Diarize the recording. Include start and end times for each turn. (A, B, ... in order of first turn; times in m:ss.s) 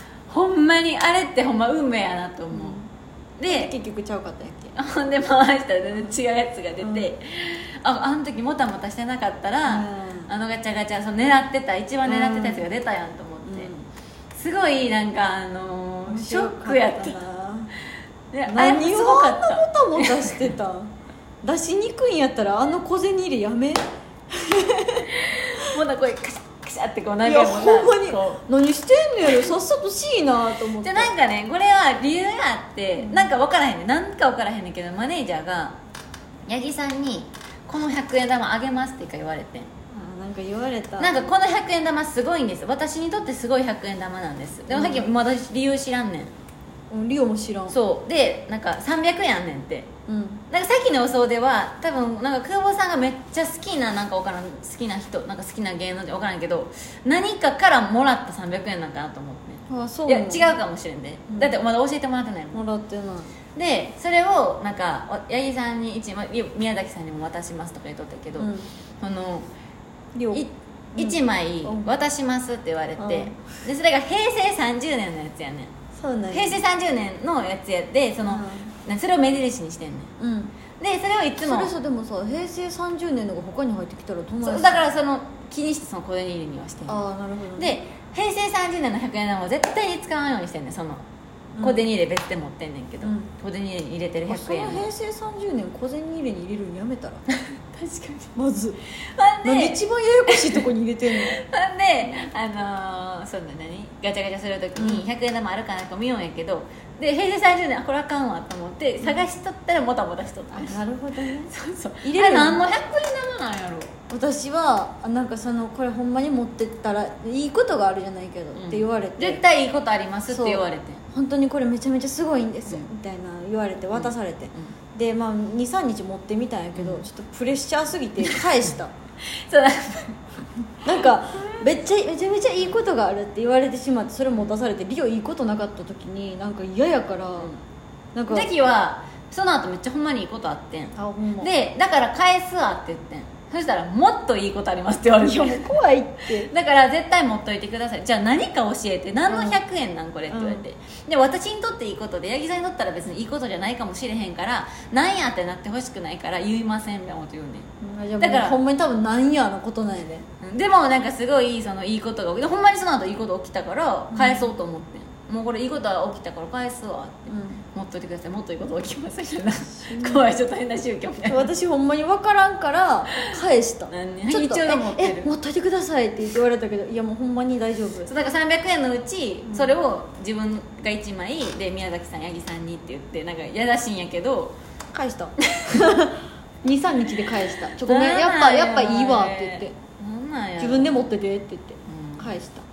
0:00.3-0:02.8 A
0:02.5-0:02.9 B
0:03.4-0:03.7 A
0:03.5-0:04.8 B
0:04.7-0:13.7 A
0:06.8-0:07.1 B
0:09.7-0:10.3 B
0:12.0-0:12.6 B
0:13.4-0:13.8 B
0:14.3-0:17.2 A
0:16.1-0:17.7 B
0:18.3-0:20.4 A
0:18.5-0:20.9 B
0:21.4-0:25.1 B
0:25.1-0:28.4 A
0:27.2-0:31.1 B
0:30.6-0:35.8 A
0:33.0-0:33.3 B
0:36.5-0:39.7 A
0:39.9-0:41.2 B
0:41.0-0:46.3 A
0:44.7-0:45.1 B
0:46.9-0:47.8 B
0:47.7-0:49.9 A
0:50.1-0:50.4 B
0:50.5-1:02.6 A
0:59.7-1:00.5 B
1:02.5-1:03.3 B
1:03.5-1:09.5 A
1:08.4-1:08.7 B
1:10.1-1:11.9 B
1:10.3-1:15.7 A
1:13.0-1:13.3 B
1:15.9-1:16.6 B
1:16.3-1:20.1 A
1:18.2-1:18.7 B
1:20.2-1:20.5 B
1:20.8-1:21.7 A
1:21.4-1:24.8 B
1:24.4-1:27.0 A
1:26.9-1:27.7 B
1:27.6-1:31.0 A
1:31.6-1:31.8 B
1:31.6-1:34.9 A
1:33.0-1:33.3 B
1:34.3-1:37.2 B
1:37.3-1:38.3 A
1:38.3-1:38.8 B
1:39.1-1:53.9 A
1:39.4-1:41.4 B
1:44.8-1:45.0 B
1:50.5-1:51.5 B
1:52.0-1:52.6 B
1:54.1-1:59.4 B
1:58.5-2:01.0 A
2:00.3-2:08.9 B
2:03.9-2:04.7 A
2:06.8-2:07.0 A
2:09.5-2:10.3 A
2:10.8-2:17.5 B
2:18.1-2:18.5 B
2:18.3-2:25.7 A
2:20.9-2:21.5 B
2:25.2-2:26.5 B
2:26.3-2:37.7 A
2:29.3-2:29.6 B
2:30.3-2:30.6 B
2:37.8-2:40.2 B
2:38.2-2:38.6 A
2:40.4-2:51.5 A
2:44.1-2:44.5 B
2:47.3-2:47.6 B
2:49.8-2:50.3 B
2:51.2-2:58.1 B
2:53.9-2:55.3 A
2:58.0-3:04.6 A
2:59.5-2:59.7 B
3:04.9-3:09.7 B
3:07.6-3:11.1 A
3:10.6-3:12.6 B
3:11.9-3:12.4 A